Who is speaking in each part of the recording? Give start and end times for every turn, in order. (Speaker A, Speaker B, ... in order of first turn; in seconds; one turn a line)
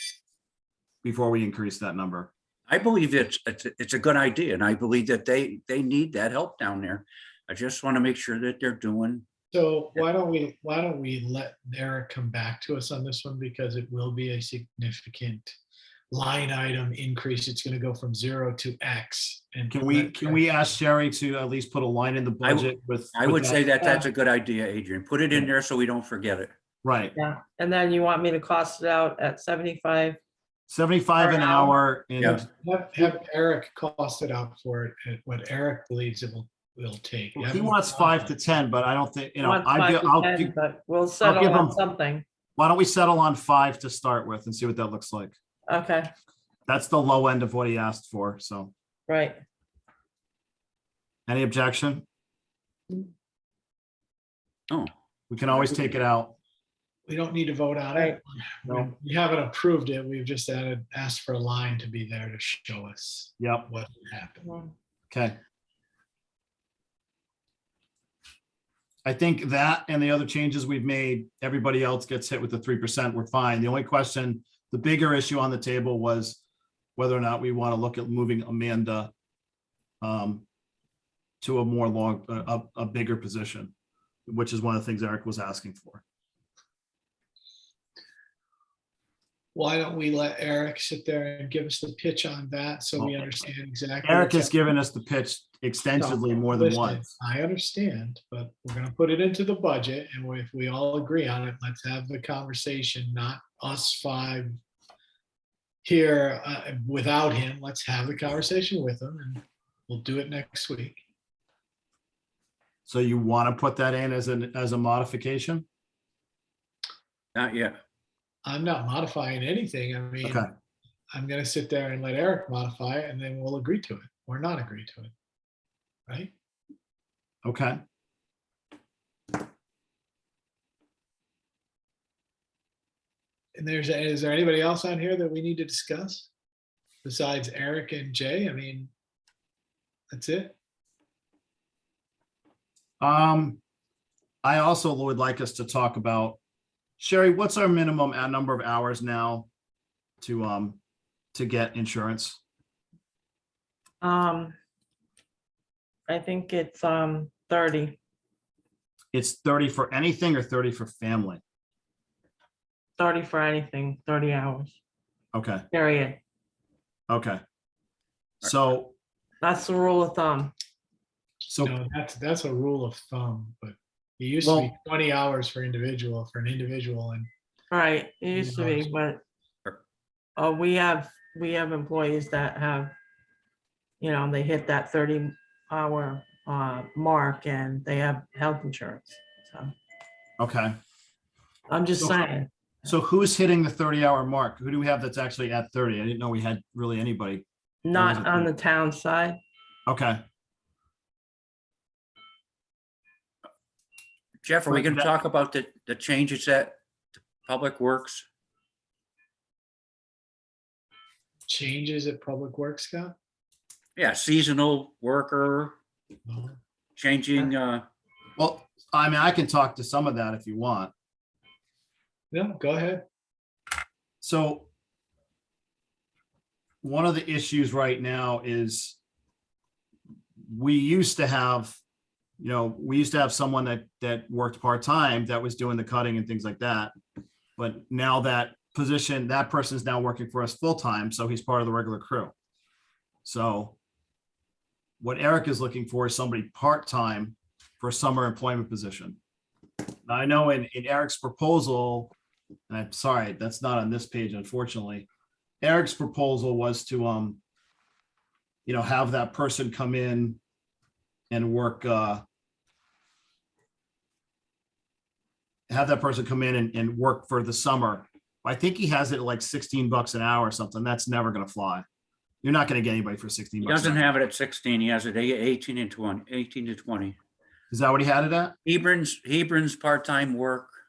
Speaker A: 1.0-2.3
Speaker B: 2.7-9.2
Speaker C: 9.5-15.5
Speaker C: 16.1-20.4
Speaker A: 19.7-23.6
Speaker B: 22.4-26.5
Speaker A: 26.8-27.1
Speaker D: 27.1-30.2
Speaker A: 30.7-32.5
Speaker D: 31.2-31.8
Speaker C: 32.5-38.3
Speaker A: 37.4-40.5
Speaker D: 39.4-42.2
Speaker A: 41.2-41.8
Speaker A: 42.6-45.3
Speaker D: 45.7-46.1
Speaker A: 46.7-48.7
Speaker D: 49.1-49.4
Speaker A: 51.3-52.0
Speaker A: 55.3-56.3
Speaker C: 57.1-64.5
Speaker A: 63.4-63.7
Speaker D: 64.4-64.7
Speaker A: 65.1-65.3
Speaker A: 69.0-76.4
Speaker A: 77.0-79.1
Speaker A: 80.0-80.4
Speaker A: 81.4-83.7
Speaker A: 84.3-86.0
Speaker C: 89.5-94.8
Speaker A: 93.0-93.5
Speaker A: 94.0-97.0
Speaker C: 96.0-104.5
Speaker C: 105.8-111.0
Speaker A: 112.8-115.6
Speaker B: 117.3-117.8
Speaker C: 118.4-120.5
Speaker A: 120.2-120.5
Speaker C: 121.1-125.1
Speaker C: 126.1-126.3
Speaker A: 127.4-127.8
Speaker C: 133.5-136.3
Speaker C: 137.0-138.9
Speaker C: 140.1-140.5
Speaker A: 143.0-143.6
Speaker A: 144.4-146.4
Speaker A: 147.0-149.5
Speaker A: 150.2-150.8
Speaker A: 151.3-152.4
Speaker D: 154.0-154.5
Speaker D: 156.1-158.0
Speaker A: 159.1-161.4
Speaker D: 163.0-164.8
Speaker A: 165.3-165.6
Speaker D: 165.7-166.2
Speaker A: 167.1-167.4
Speaker A: 168.4-168.9
Speaker D: 169.4-170.5
Speaker A: 171.5-171.7
Speaker C: 171.6-177.3
Speaker D: 177.7-179.2
Speaker C: 178.3-178.9
Speaker D: 180.3-182.9
Speaker D: 184.0-189.7
Speaker A: 190.4-190.8
Speaker D: 191.7-192.5
Speaker A: 192.8-198.5
Speaker D: 197.8-199.4
Speaker A: 199.9-200.2
Speaker B: 204.4-206.8
Speaker A: 204.7-205.1
Speaker B: 207.4-208.2
Speaker C: 211.5-213.1
Speaker B: 214.0-215.8
Speaker C: 216.2-216.6
Speaker B: 217.0-217.8
Speaker A: 218.4-220.9
Speaker C: 222.3-223.0
Speaker A: 224.2-224.7
Speaker A: 226.8-229.0
Speaker A: 230.5-231.8
Speaker A: 232.4-236.9
Speaker A: 237.6-242.3
Speaker A: 243.2-243.7
Speaker A: 245.0-249.2
Speaker A: 250.1-252.1
Speaker A: 252.7-255.1
Speaker A: 255.6-257.4
Speaker A: 258.6-260.4
Speaker A: 261.3-262.2
Speaker A: 265.7-271.8
Speaker A: 272.4-274.1
Speaker B: 273.6-277.2
Speaker A: 277.7-278.6
Speaker B: 278.6-280.7